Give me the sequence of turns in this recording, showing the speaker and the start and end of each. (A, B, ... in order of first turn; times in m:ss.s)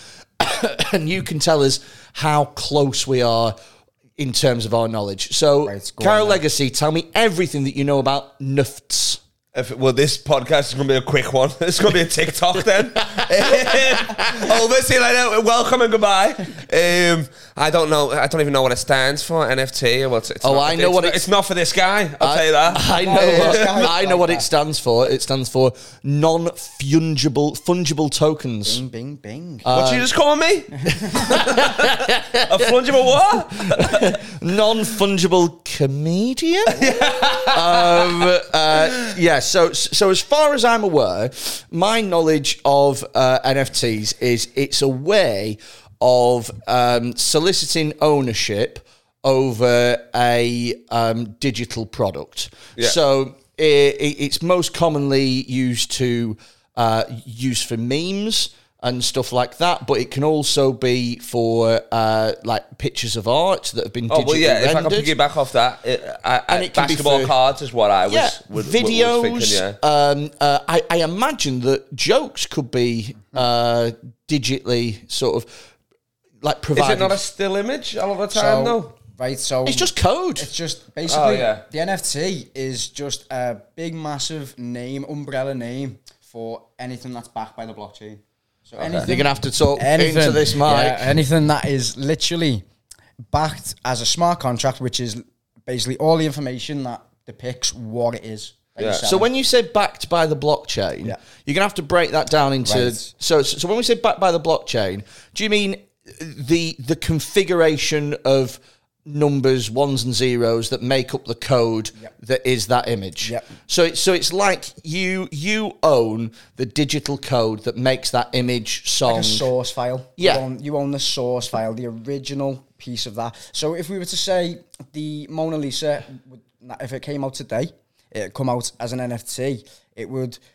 0:00.4-0:03.6 A
0:04.2-0:09.2 A
0:05.6-0:06.4 B
0:09.6-0:23.8 C
0:14.0-0:14.3 A
0:20.4-0:21.2 A
0:22.2-0:28.8 A
0:22.9-0:24.5 B
0:28.6-0:29.7 B
0:29.6-0:30.1 A
0:29.7-0:34.2 C
0:31.1-0:32.7 A
0:33.6-1:05.1 A
0:36.8-0:38.2 C
1:04.1-1:09.8 C
1:06.5-1:07.3 A
1:08.1-1:15.5 A
1:16.4-1:17.2 A
1:16.8-1:18.9 C
1:18.3-1:32.6 B
1:19.6-1:20.5 A
1:21.1-1:21.6 C
1:28.8-1:29.1 C
1:29.0-1:31.2 A
1:33.3-1:39.3 B
1:38.8-1:39.0 C
1:39.1-1:59.5 A
1:42.6-1:43.1 B
1:53.2-1:53.5 B
1:59.0-2:10.4 B
2:00.2-2:00.4 A